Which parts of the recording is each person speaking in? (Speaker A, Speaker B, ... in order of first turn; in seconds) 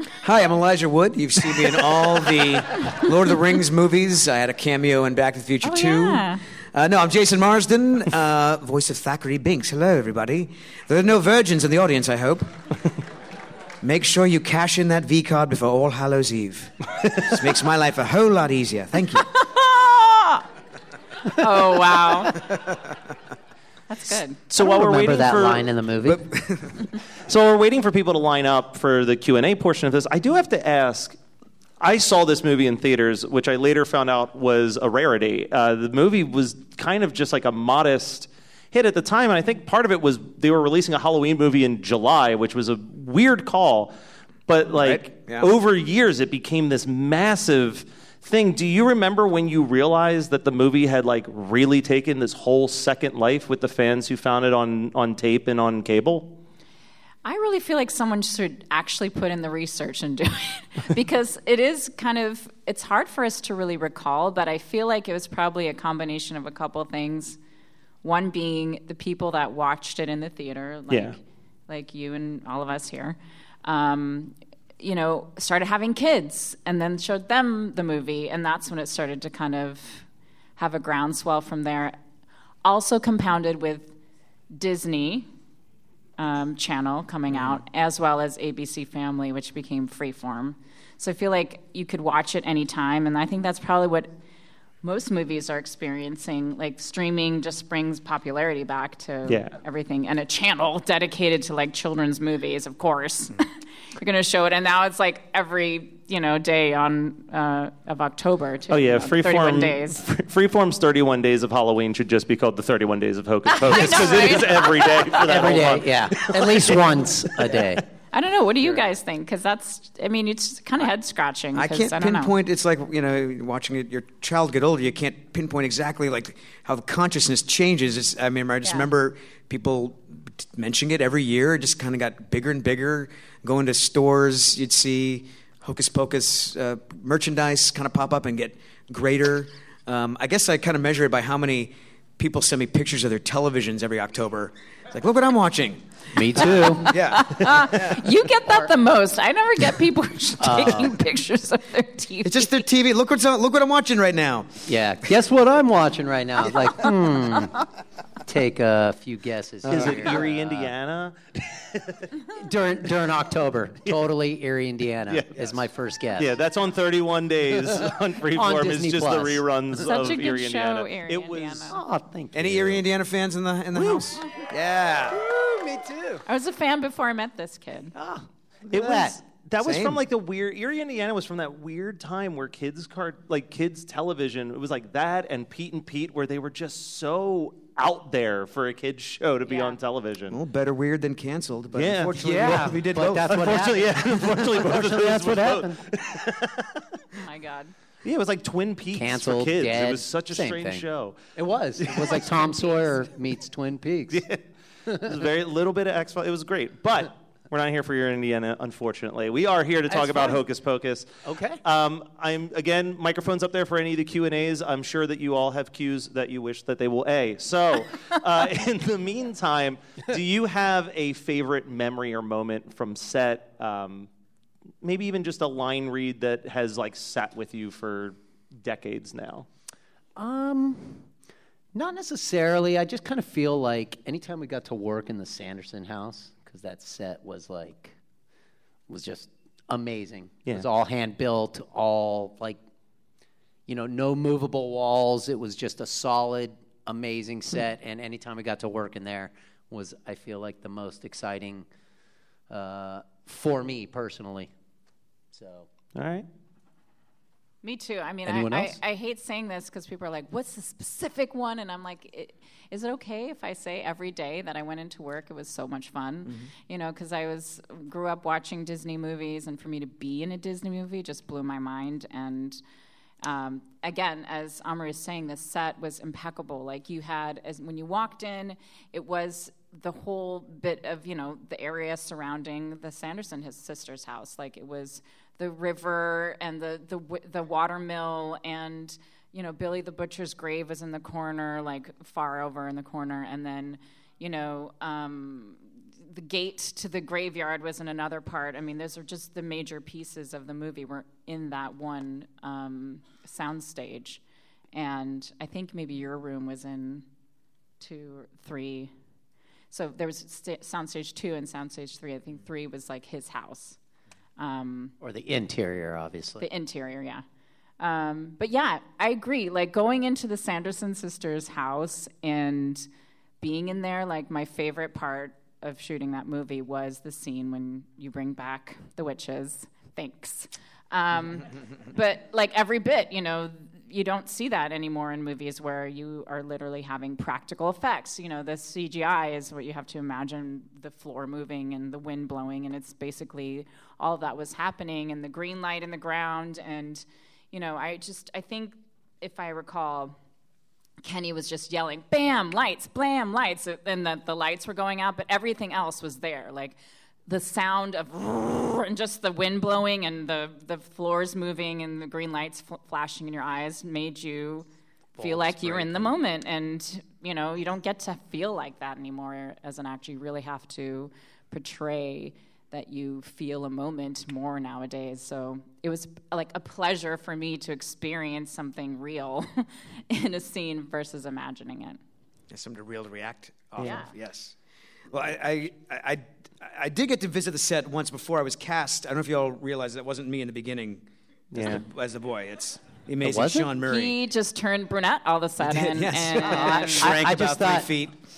Speaker A: 0.2-12.5, 13.8-19.2, 26.0-26.8, 44.7-45.5, 121.5-148.0, 152.2-154.7, 172.3-175.2, 179.6-180.0, 190.3-193.6, 266.2-266.5, 382.5-384.5, 385.1-394.2, 395.6-398.1
Speaker B: 5.6-6.4, 19.2-20.4, 21.3-22.4, 23.9-24.5, 57.2-67.4, 68.0-80.0, 80.6-82.0, 82.6-83.9, 84.5-85.3, 86.2-94.1, 94.8-110.0, 113.5-115.2, 118.1-122.3, 146.4-152.6, 169.8-171.8, 176.2-177.9, 189.4-189.8, 197.1-197.7, 202.2-203.0, 257.6-272.6, 273.2-304.2, 304.7-307.0, 307.8-308.9, 309.7-313.8, 314.4-314.9, 316.4-317.2, 317.8-322.9, 323.4-350.1, 351.0-364.7, 365.2-382.0, 383.8-384.1, 393.8-397.2
Speaker C: 24.5-25.7, 27.3-31.2, 31.8-43.9, 44.5-56.3, 70.9-71.2, 99.3-99.6, 108.7-117.6, 159.7-162.1, 165.1-165.3, 166.2-171.7, 173.7-174.0, 178.7-190.4, 191.7-192.7, 193.2-196.8, 198.0-202.3, 204.1-204.4, 205.0-211.1, 211.6-224.1, 224.8-229.5, 255.9-256.2, 391.5-391.8
Speaker D: 24.5-26.2, 113.7-114.5, 115.1-117.8, 146.1-146.9, 150.4-151.0, 154.7-157.6, 158.2-160.7, 162.3-166.4, 167.5-169.4, 171.7-172.8, 175.4-176.2, 178.7-179.2, 192.1-195.8, 198.9-204.2, 204.9-205.2, 209.9-210.4, 211.2-211.6, 230.2-231.1, 231.7-237.9, 238.9-242.6, 243.7-251.7, 252.5-254.5, 255.3-255.7, 258.2-258.8, 315.0-316.5, 365.1-366.1, 393.2-393.7, 396.4-397.9